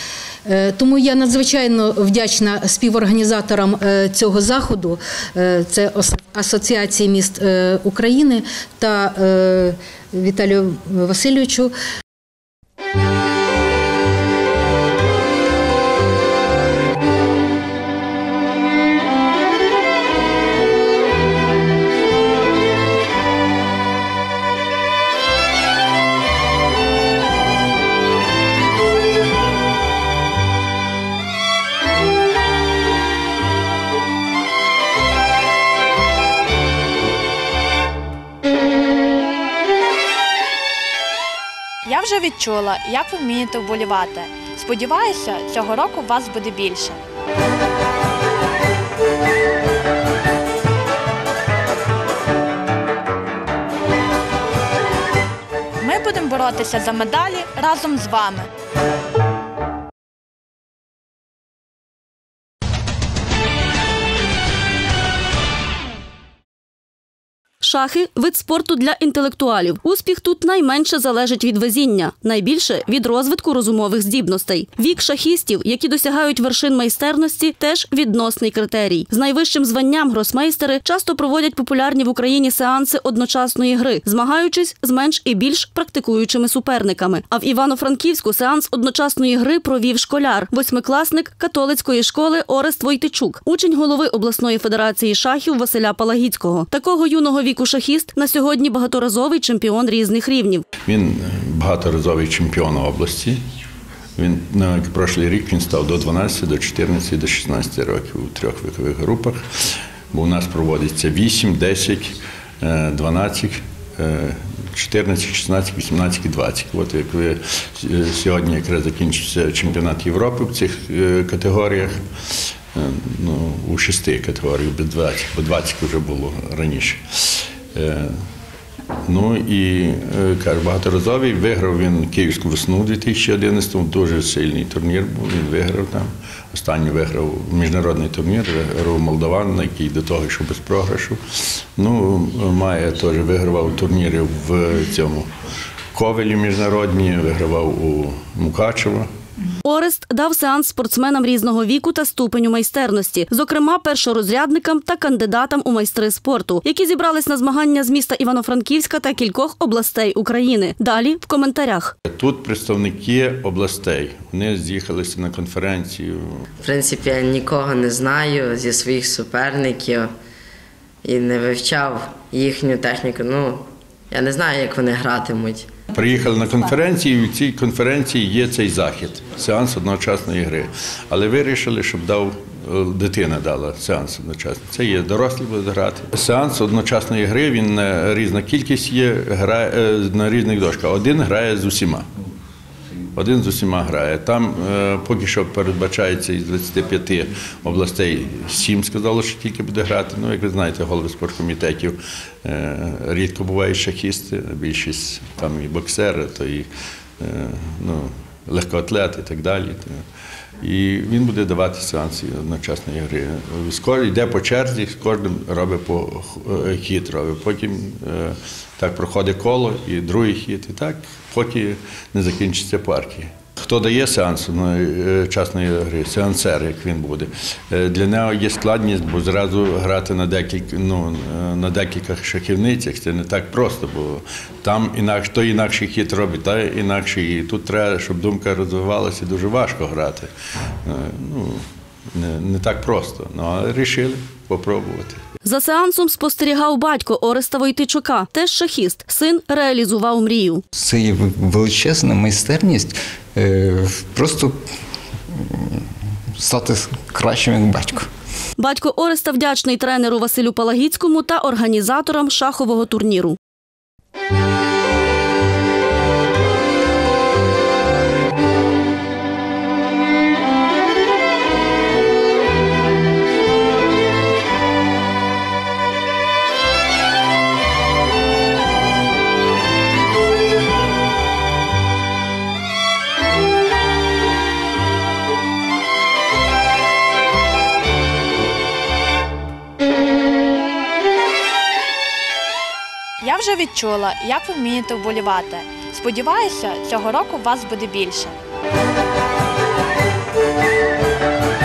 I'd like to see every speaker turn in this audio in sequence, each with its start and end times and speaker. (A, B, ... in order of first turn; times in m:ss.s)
0:00.4-0:11.7 A
0:41.8-0:47.0 B
0:55.8-0:58.5 B
1:07.6-1:40.6 C
1:40.8-1:43.4 D
1:44.2-1:49.4 D
1:50.1-2:02.0 D
2:02.7-2:08.1 D
2:09.1-2:21.2 D
2:21.8-2:25.3 D
2:25.9-2:29.1 D
2:29.6-2:41.9 C
2:42.1-2:46.4 D
2:46.6-2:50.1 E
2:51.0-2:55.7 E
2:55.9-3:12.0 D
3:13.1-3:26.7 D
3:27.2-3:30.0 D
3:30.6-4:00.3 D
4:00.8-4:01.6 D
4:02.2-4:05.2 D
4:05.4-4:10.6 C
4:10.7-4:14.7 F
4:15.4-4:15.8 F
4:16.4-4:18.1 F
4:18.6-4:23.4 C
4:53.2-4:58.4 B